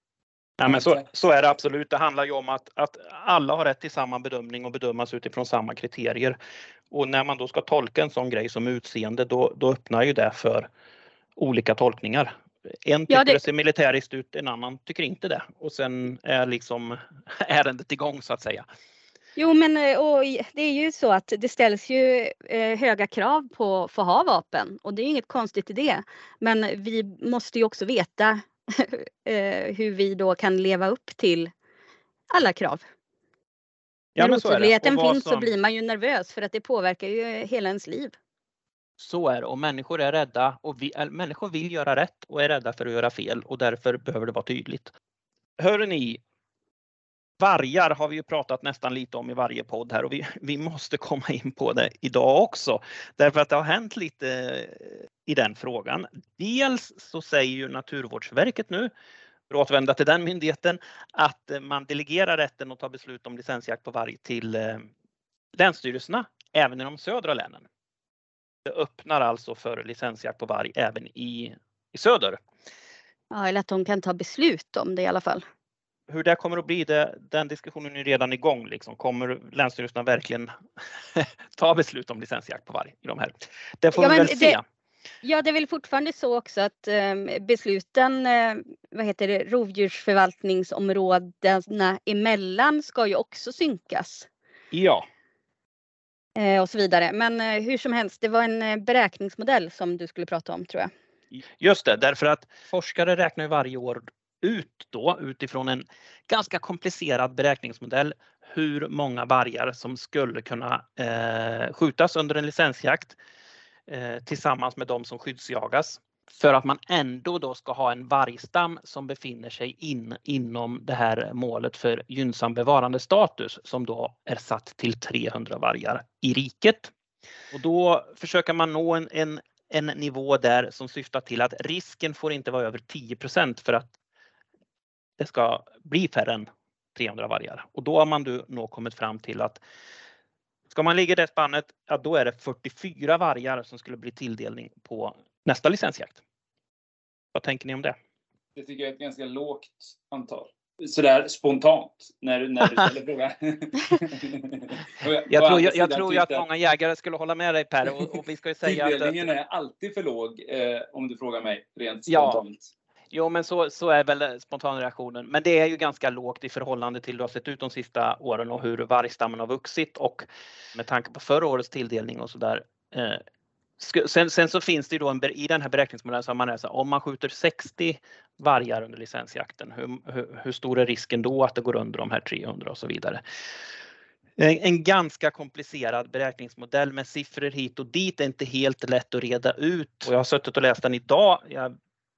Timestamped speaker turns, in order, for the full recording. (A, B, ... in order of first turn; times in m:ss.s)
0:00.6-0:06.4 A
0:00.6-0:01.0 B
0:06.9-0:10.7 A
0:11.4-0:12.3 A
0:12.8-0:18.6 A
0:13.1-0:13.4 C
0:19.4-0:31.5 C
0:32.3-0:32.8 C
0:34.2-0:35.5 A
0:34.2-0:38.1 C
0:39.0-0:44.9 A
0:45.6-0:46.2 A
0:47.4-0:58.9 A
0:59.5-1:04.9 A
1:05.6-1:07.6 A
1:08.6-1:12.4 A
1:13.3-1:15.4 C
1:16.1-1:20.5 A
1:21.1-1:24.6 A
1:23.9-1:24.6 C
1:25.2-1:34.3 C
1:34.7-1:35.0 A
1:36.4-1:40.9 C
1:41.5-1:53.2 A
1:53.9-2:06.9 A
2:07.5-2:13.9 A
2:15.2-2:19.6 A
2:20.7-2:26.2 A
2:27.3-2:28.0 A
2:28.5-2:36.4 B
2:35.3-2:39.2 A
2:38.6-2:42.7 B
2:42.1-2:42.4 A
2:43.1-2:53.2 A
2:53.8-3:03.2 A
3:04.4-3:11.7 A